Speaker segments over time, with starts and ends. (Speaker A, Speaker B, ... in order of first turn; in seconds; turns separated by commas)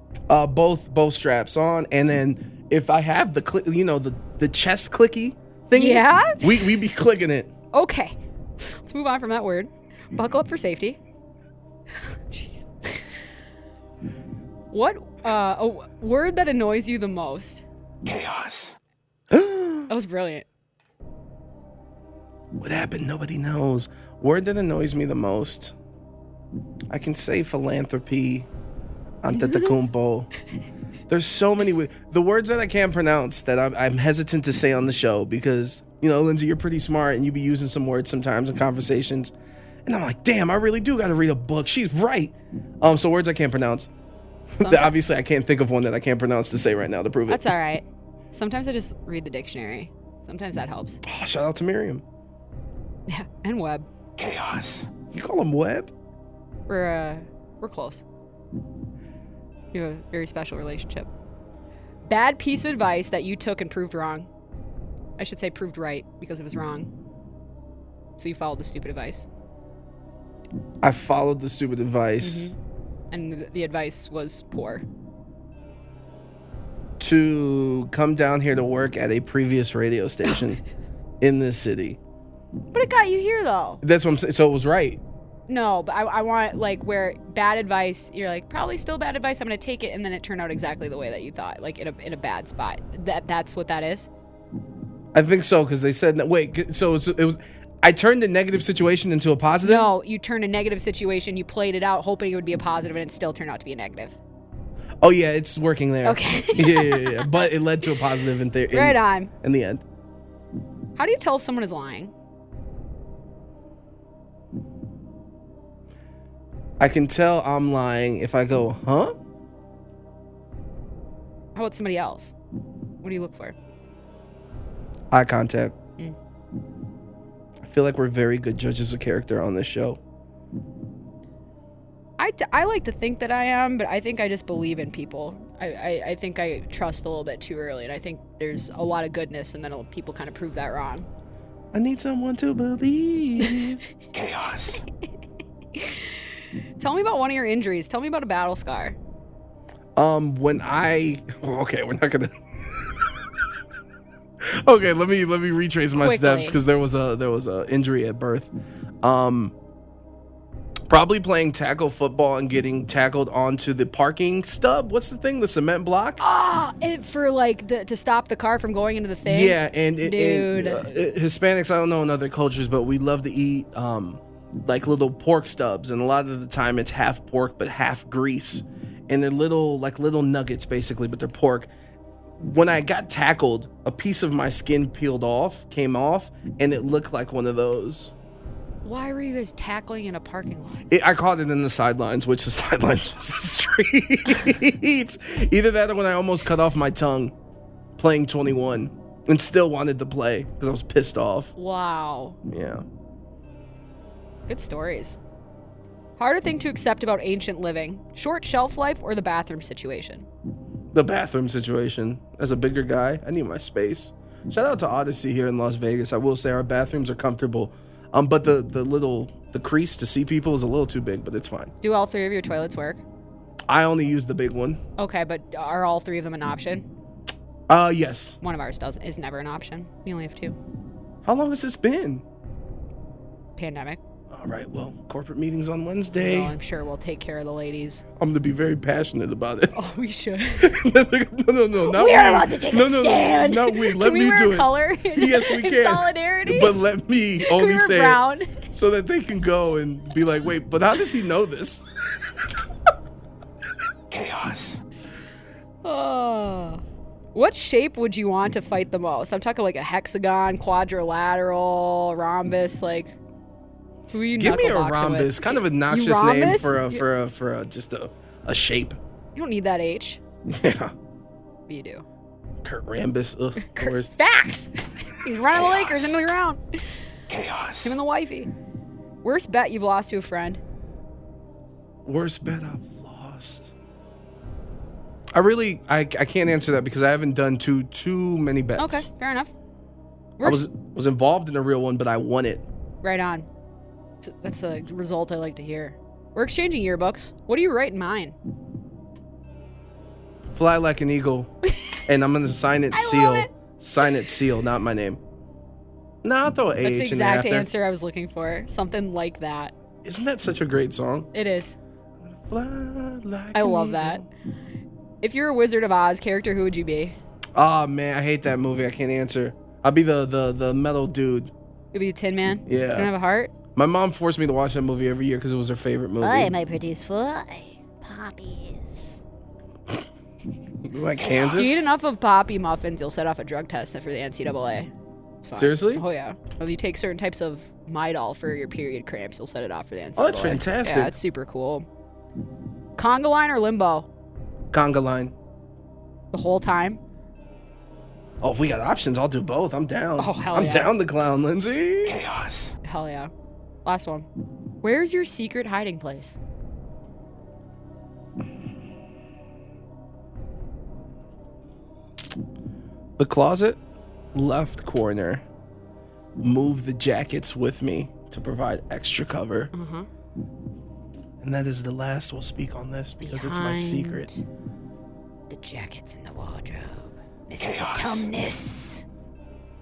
Speaker A: 0.3-7.5, Speaker B: 5.7-6.7, Speaker B: 7.7-11.0, Speaker B: 12.3-13.1, Speaker B: 14.7-17.6, Speaker A: 19.3-19.9, Speaker B: 19.9-20.4, Speaker A: 22.6-25.7, Speaker A: 26.9-28.5, Speaker A: 29.2-30.3, Speaker B: 29.3-29.8, Speaker A: 31.1-39.3, Speaker A: 39.9-43.9, Speaker A: 44.6-47.6, Speaker B: 44.6-45.0, Speaker B: 47.3-51.0, Speaker A: 51.0-52.0, Speaker B: 53.1-53.9, Speaker A: 55.1-55.9, Speaker B: 56.7-58.0, Speaker B: 59.7-61.1, Speaker B: 62.1-64.3, Speaker B: 65.2-66.9, Speaker B: 68.2-69.3, Speaker A: 70.8-72.5, Speaker B: 72.2-72.5, Speaker B: 73.1-74.8, Speaker A: 77.0-80.6, Speaker A: 81.2-82.0, Speaker B: 82.7-83.8, Speaker A: 83.8-85.0, Speaker B: 85.5-94.1, Speaker A: 95.1-99.9, Speaker B: 99.6-104.2, Speaker A: 105.0-109.8, Speaker B: 106.0-107.5, Speaker B: 108.7-109.3, Speaker B: 111.0-112.1, Speaker A: 116.8-119.2, Speaker B: 121.5-122.3, Speaker B: 123.0-123.5, Speaker A: 125.1-125.8, Speaker A: 127.6-130.0, Speaker B: 132.2-141.1, Speaker A: 141.7-143.8, Speaker B: 145.8-146.1, Speaker B: 146.8-149.0, Speaker A: 150.0-152.4, Speaker A: 154.4-158.5, Speaker B: 156.0-156.6, Speaker A: 159.0-159.5, Speaker A: 160.9-166.2, Speaker B: 166.2-170.9, Speaker A: 169.3-181.7, Speaker A: 182.4-188.1, Speaker B: 188.8-190.9, Speaker A: 190.9-197.3, Speaker A: 198.0-201.5, Speaker B: 201.6-202.4, Speaker A: 202.5-202.8, Speaker B: 204.5-205.2, Speaker B: 206.2-210.3, Speaker A: 210.9-221.7, Speaker B: 221.8-223.0, Speaker A: 223.7-224.8, Speaker B: 225.0-226.8, Speaker A: 227.7-228.4, Speaker B: 228.4-230.6, Speaker A: 231.2-232.2, Speaker B: 233.6-234.0, Speaker A: 234.3-236.6, Speaker B: 236.2-238.0, Speaker A: 238.2-239.7, Speaker B: 239.7-240.7, Speaker A: 240.6-248.2, Speaker B: 241.8-246.8, Speaker B: 247.4-248.5, Speaker A: 248.7-251.9, Speaker B: 255.8-256.8, Speaker B: 257.4-263.1, Speaker B: 264.1-267.0, Speaker A: 264.4-269.0, Speaker B: 269.4-270.2, Speaker A: 270.5-270.9, Speaker B: 271.7-272.1, Speaker A: 272.6-274.1, Speaker B: 273.6-276.6, Speaker B: 277.8-278.5, Speaker B: 279.2-280.6, Speaker A: 282.1-283.7, Speaker A: 285.3-289.1, Speaker B: 288.8-289.5, Speaker B: 290.4-290.6, Speaker A: 290.4-292.7, Speaker B: 293.0-293.5, Speaker B: 294.2-298.4, Speaker A: 300.5-301.5, Speaker A: 302.1-305.2, Speaker B: 302.9-303.5, Speaker A: 306.2-307.7, Speaker B: 306.8-309.7, Speaker A: 310.0-311.3, Speaker B: 311.3-311.8, Speaker A: 312.2-314.3, Speaker B: 313.5-314.2, Speaker B: 315.2-317.2, Speaker A: 317.6-321.5, Speaker B: 321.9-323.5, Speaker A: 322.7-323.1, Speaker A: 323.8-326.5, Speaker C: 326.2-329.2, Speaker A: 330.8-331.9, Speaker B: 331.6-334.9, Speaker B: 335.4-341.9, Speaker A: 335.6-336.0, Speaker A: 340.2-341.1, Speaker B: 343.0-344.1, Speaker A: 344.7-345.3, Speaker B: 346.3-347.0, Speaker A: 348.4-352.3, Speaker B: 350.2-350.9, Speaker B: 352.8-353.3, Speaker B: 353.9-354.3, Speaker B: 354.8-356.4, Speaker A: 363.2-363.8, Speaker A: 364.3-365.4, Speaker A: 366.4-369.7, Speaker B: 369.7-370.1, Speaker A: 371.4-374.3, Speaker B: 373.2-374.4, Speaker B: 375.5-379.0